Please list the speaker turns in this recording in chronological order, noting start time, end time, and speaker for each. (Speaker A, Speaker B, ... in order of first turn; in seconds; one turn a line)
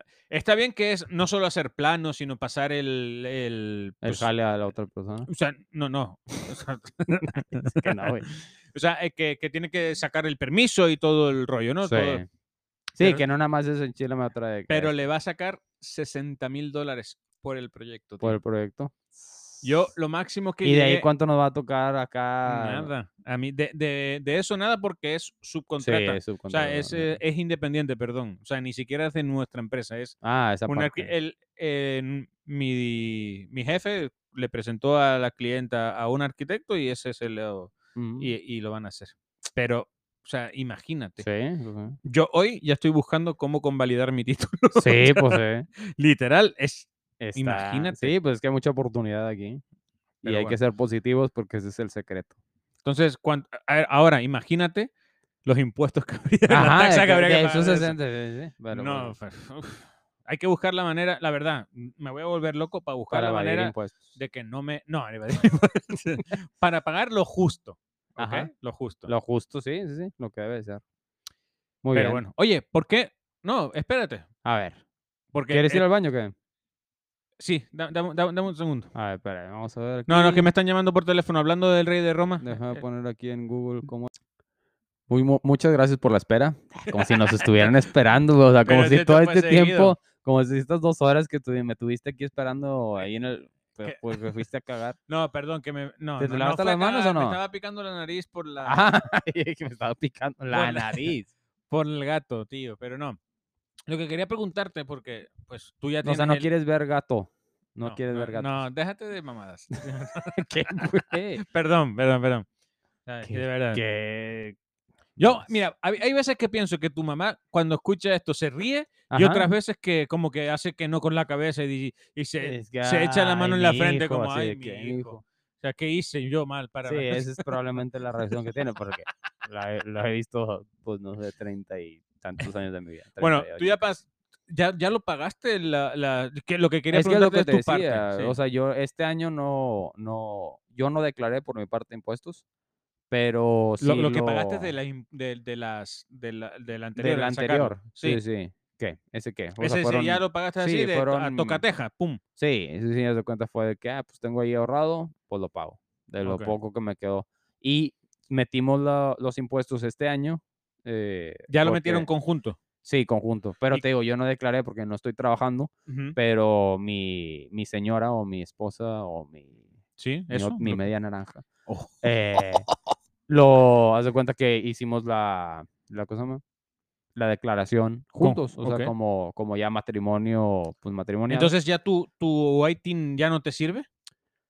Speaker A: 0.3-4.3
Speaker B: 4.0-5.3
Speaker A: 5.3-12.2
Speaker B: 7.5-8.3
Speaker B: 11.8-12.2
Speaker B: 12.9-14.9
Speaker A: 14.7-18.4
Speaker B: 18.2-19.6
Speaker A: 19.6-21.1
Speaker B: 20.6-22.9
Speaker A: 22.4-30.1
Speaker B: 25.8-27.2
Speaker B: 30.2-31.1
Speaker A: 30.7-41.2
Speaker B: 37.9-38.3
Speaker B: 41.2-42.0
Speaker A: 42.0-45.4
Speaker B: 44.7-45.7
Speaker A: 46.0-48.1
Speaker B: 47.2-49.6
Speaker A: 50.2-50.5
Speaker B: 50.2-52.3
Speaker A: 52.8-54.9
Speaker A: 55.4-58.0
Speaker B: 56.5-59.1
Speaker A: 58.7-69.1
Speaker B: 63.1-64.1
Speaker B: 68.2-68.5
Speaker B: 69.1-70.8
Speaker B: 71.8-72.2
Speaker A: 71.9-74.2
Speaker B: 74.4-74.8
Speaker A: 75.3-75.8
Speaker B: 75.5-76.3
Speaker A: 77.4-78.9
Speaker B: 78.9-80.5
Speaker A: 80.1-82.8
Speaker B: 82.4-84.1
Speaker B: 85.1-95.0
Speaker A: 86.9-87.7
Speaker A: 88.6-90.0
Speaker A: 93.8-94.2
Speaker A: 95.1-98.8
Speaker B: 96.2-97.4
Speaker B: 98.6-101.3
Speaker A: 100.5-101.1
Speaker A: 101.7-103.2
Speaker A: 103.9-106.5
Speaker B: 106.0-108.6
Speaker A: 107.8-110.8
Speaker B: 110.3-111.4
Speaker A: 111.4-112.5
Speaker A: 113.1-113.8
Speaker B: 113.2-114.5
Speaker B: 115.2-115.5
Speaker A: 115.2-127.5
Speaker B: 119.1-119.5
Speaker B: 122.4-125.2
Speaker B: 126.8-133.7
Speaker A: 133.2-138.3
Speaker B: 136.9-142.4
Speaker B: 143.1-144.7
Speaker A: 143.8-148.2
Speaker B: 146.9-151.6
Speaker A: 149.6-152.2
Speaker B: 152.4-162.1
Speaker A: 156.2-156.5
Speaker A: 161.5-162.6
Speaker B: 162.8-169.6
Speaker A: 165.9-166.2
Speaker A: 170.0-170.8
Speaker B: 170.3-171.4
Speaker A: 171.7-172.4
Speaker B: 172.0-172.7
Speaker B: 173.3-176.4
Speaker B: 177.1-181.5
Speaker A: 178.2-178.9
Speaker A: 181.3-183.9